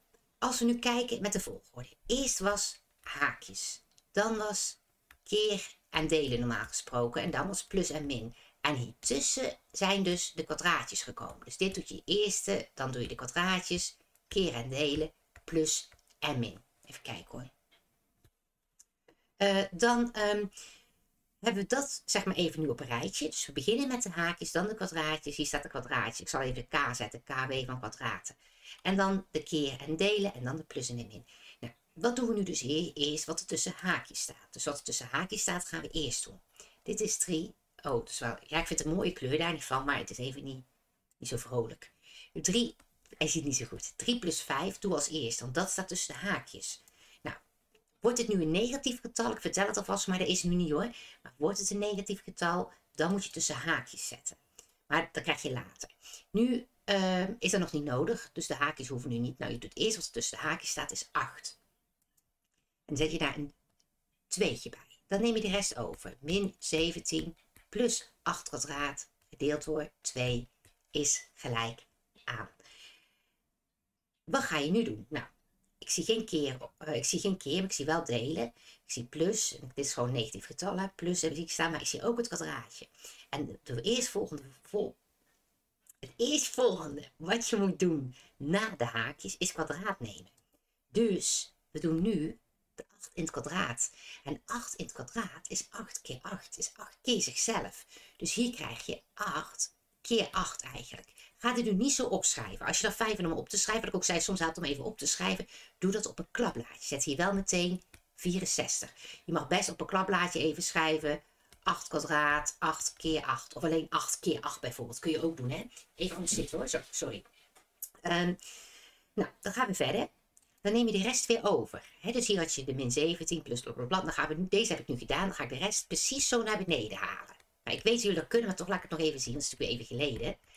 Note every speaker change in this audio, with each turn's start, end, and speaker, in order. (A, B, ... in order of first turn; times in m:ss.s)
0:00.4-0:17.5 A
0:19.4-0:20.5 A
0:21.4-0:40.6 A
0:41.2-0:47.4 A
0:48.0-0:54.4 A
0:54.9-1:01.6 A
1:02.9-1:03.5 A
1:04.3-1:12.5 A
1:14.3-1:15.3 A
1:15.8-1:25.0 A
1:26.0-1:30.3 A
1:30.9-1:57.2 A
1:58.0-1:58.4 A
1:59.2-2:00.1 A
2:00.6-2:10.4 A